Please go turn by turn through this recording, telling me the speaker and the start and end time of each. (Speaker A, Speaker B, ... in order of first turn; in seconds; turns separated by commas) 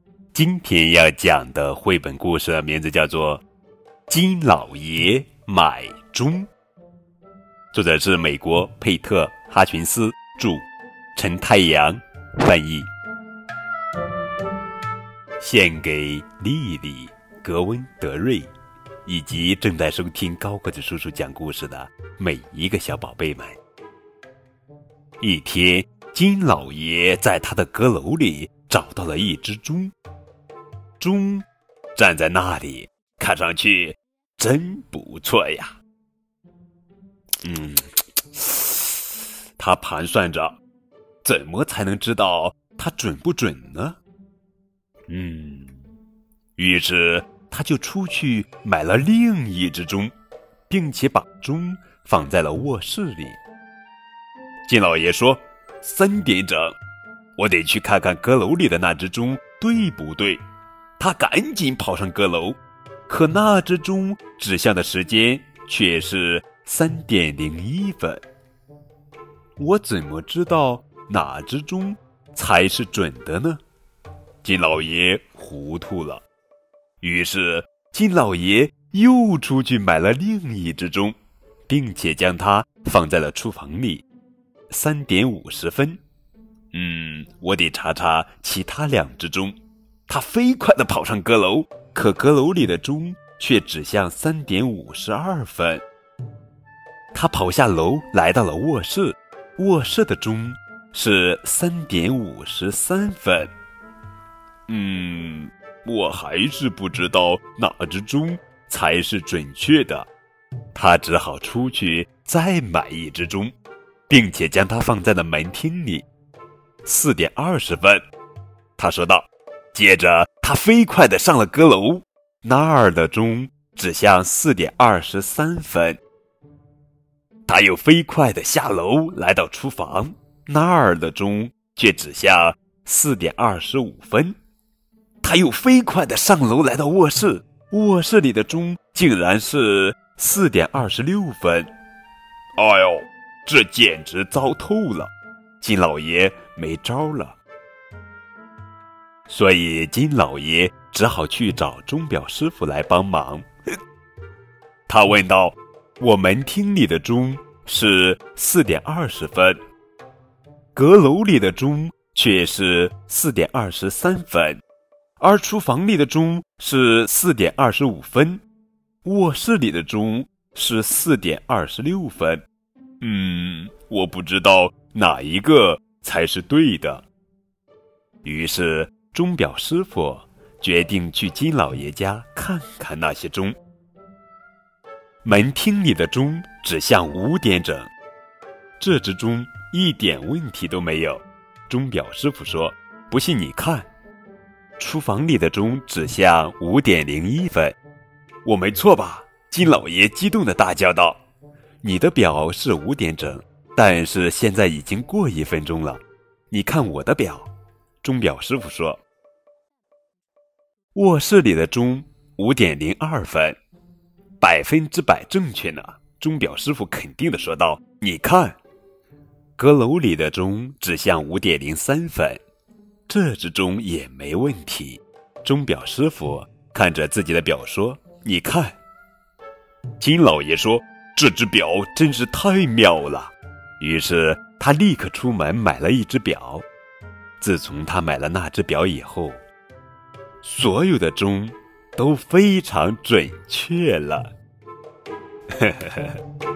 Speaker A: 0.3-3.4, Speaker A: 4.1-6.5, Speaker A: 7.7-10.6, Speaker A: 11.2-12.9, Speaker A: 15.4-18.5, Speaker A: 19.1-23.6, Speaker A: 25.2-29.9, Speaker A: 31.0-35.8, Speaker A: 37.4-39.0, Speaker A: 39.6-40.6, Speaker A: 41.2-44.0, Speaker A: 45.1-45.8, Speaker A: 46.6-50.1, Speaker A: 50.7-53.4, Speaker A: 54.6-56.8, Speaker A: 57.4-60.4, Speaker A: 61.0-68.2, Speaker A: 69.6-73.6, Speaker A: 74.4-76.2, Speaker A: 77.0-81.2, Speaker A: 81.7-84.0, Speaker A: 84.7-86.0, Speaker A: 86.7-89.6, Speaker A: 90.1-95.8, Speaker A: 97.1-103.5, Speaker A: 104.7-110.1, Speaker A: 110.8-113.5, Speaker A: 114.1-116.1, Speaker A: 116.8-118.0, Speaker A: 118.8-126.0, Speaker A: 127.5-134.4, Speaker A: 135.2-141.7, Speaker A: 142.6-147.4, Speaker A: 149.3-153.5, Speaker A: 154.9-159.6, Speaker A: 160.8-164.6, Speaker A: 165.2-168.4, Speaker A: 169.0-172.4, Speaker A: 173.0-177.1, Speaker A: 178.2-183.6, Speaker A: 185.2-187.9, Speaker A: 188.8-193.9, Speaker A: 194.8-197.8, Speaker A: 198.4-201.2, Speaker A: 201.8-207.5, Speaker A: 208.0-209.0, Speaker A: 210.9-213.6, Speaker A: 214.4-218.6, Speaker A: 219.6-222.4, Speaker A: 223.1-228.8, Speaker A: 230.0-236.7, Speaker A: 237.4-239.4, Speaker A: 240.4-244.3, Speaker A: 245.5-246.2